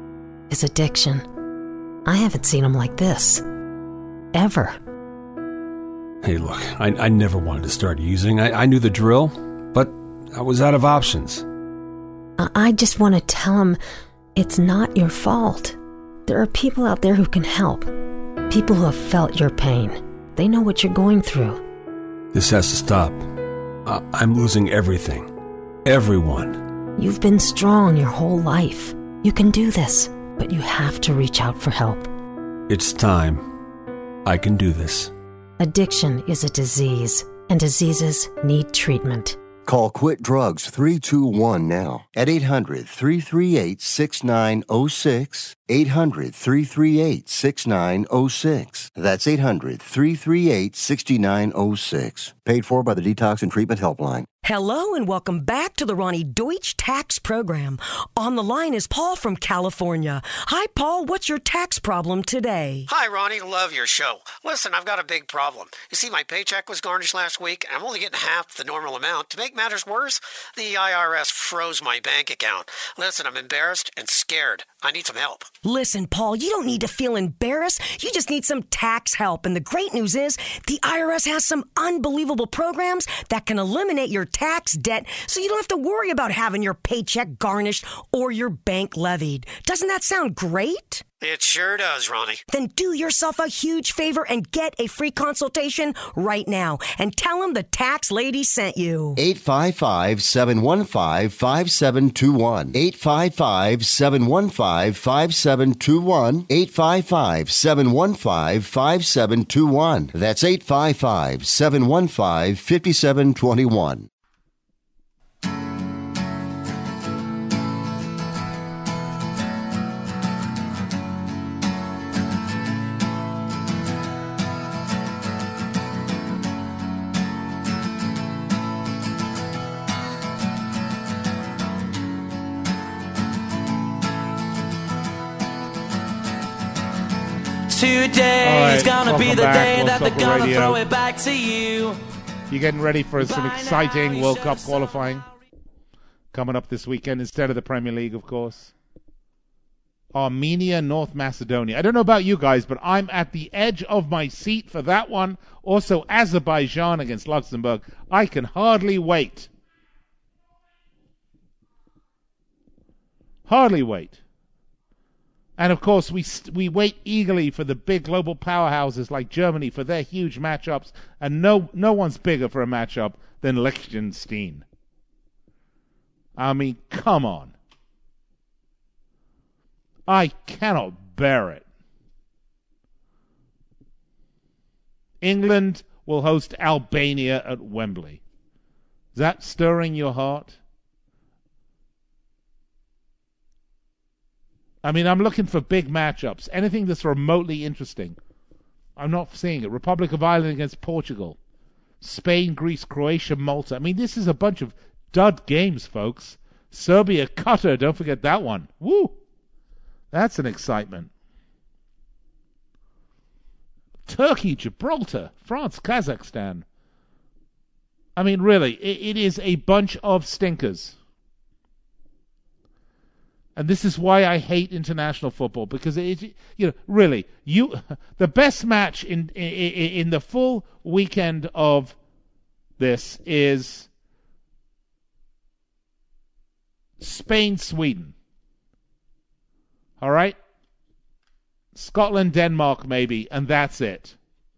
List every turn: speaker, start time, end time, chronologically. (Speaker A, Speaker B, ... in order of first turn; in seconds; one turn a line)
Speaker A: 0.5-1.3
Speaker A: 2.0-3.5
Speaker A: 4.3-4.8
Speaker B: 6.2-11.4
Speaker A: 12.4-13.8
Speaker A: 14.4-17.9
Speaker A: 18.5-21.6
Speaker B: 22.3-25.3
Speaker B: 25.9-26.7
Speaker A: 27.0-32.1
Speaker B: 32.7-33.5
Speaker B: 34.2-35.1
Speaker A: 35.6-39.4
Speaker C: 39.6-54.3
Speaker D: 54.4-62.9
Speaker E: 62.9-75.5
Speaker D: 75.6-91.0
Speaker E: 91.2-92.4
Speaker D: 92.5-99.2
Speaker C: 99.2-114.1
Speaker F: 137.7-142.0
Speaker G: 138.4-140.8
Speaker G: 142.5-145.2
Speaker F: 143.2-144.8
Speaker G: 146.3-148.7
Speaker G: 150.1-159.5
Speaker G: 163.5-164.2
Speaker G: 165.6-174.7
Speaker G: 176.4-177.6
Speaker G: 180.1-181.7
Speaker G: 185.2-188.2
Speaker G: 189.2-190.6
Speaker G: 194.8-198.2
Speaker G: 199.0-201.4
Speaker G: 202.0-209.2
Speaker G: 210.1-211.1
Speaker G: 214.1-216.7
Speaker G: 218.2-221.0
Speaker G: 223.6-232.0
Speaker G: 232.8-233.9
Speaker G: 237.0-238.2
Speaker G: 240.0-240.4
Speaker G: 241.8-244.2